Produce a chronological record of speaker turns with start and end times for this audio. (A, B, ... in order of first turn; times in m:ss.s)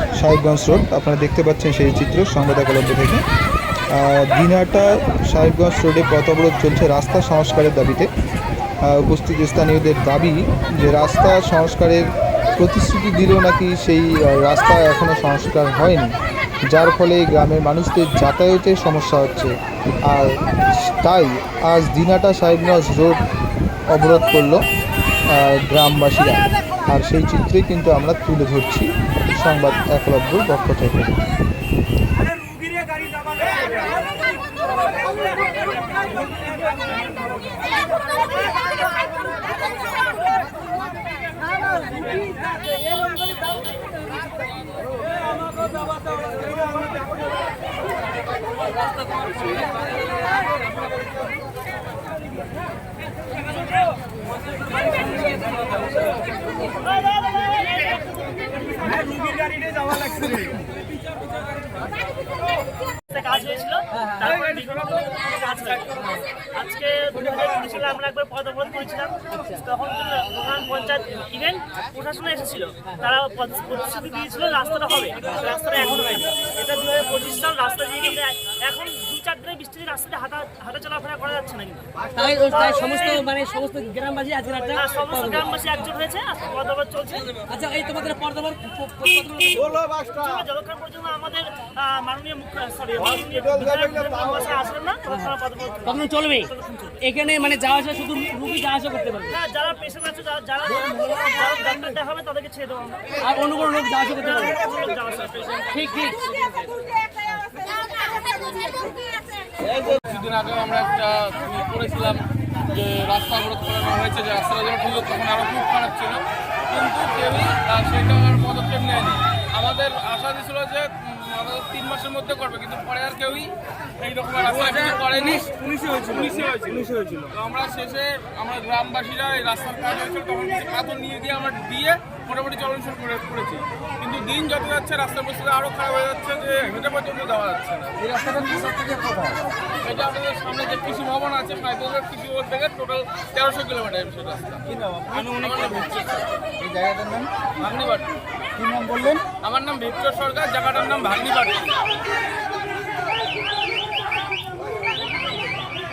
0:00.2-0:03.2 A
0:03.9-0:08.1 A
0:08.8-0:16.1 A
0:16.7-0:19.5 A
0:20.1-0:23.2 A
0:23.9-0:24.6 A
0:25.3-0:31.2 A
0:32.3-0:33.9 B
0:58.8-1:00.5 B
1:03.1-1:21.9 C
1:22.2-1:25.4 B
1:22.5-1:23.2 C
1:24.7-1:27.5 C
1:27.5-1:30.0 B
1:30.0-1:37.0 C
1:35.9-1:36.5 B
1:37.0-1:39.3 B
1:39.3-1:43.2 C
1:43.2-1:44.5 B
1:44.2-1:45.6 C
1:45.5-1:46.5 D
1:45.7-1:46.2 B
1:49.8-2:18.5 D
2:06.9-2:07.2 B
2:18.1-2:19.4 B
2:19.8-2:26.3 D
2:24.7-2:25.3 B
2:26.6-2:27.3 B
2:27.6-2:28.1 D
2:28.6-2:29.2 B
2:29.4-2:31.8 D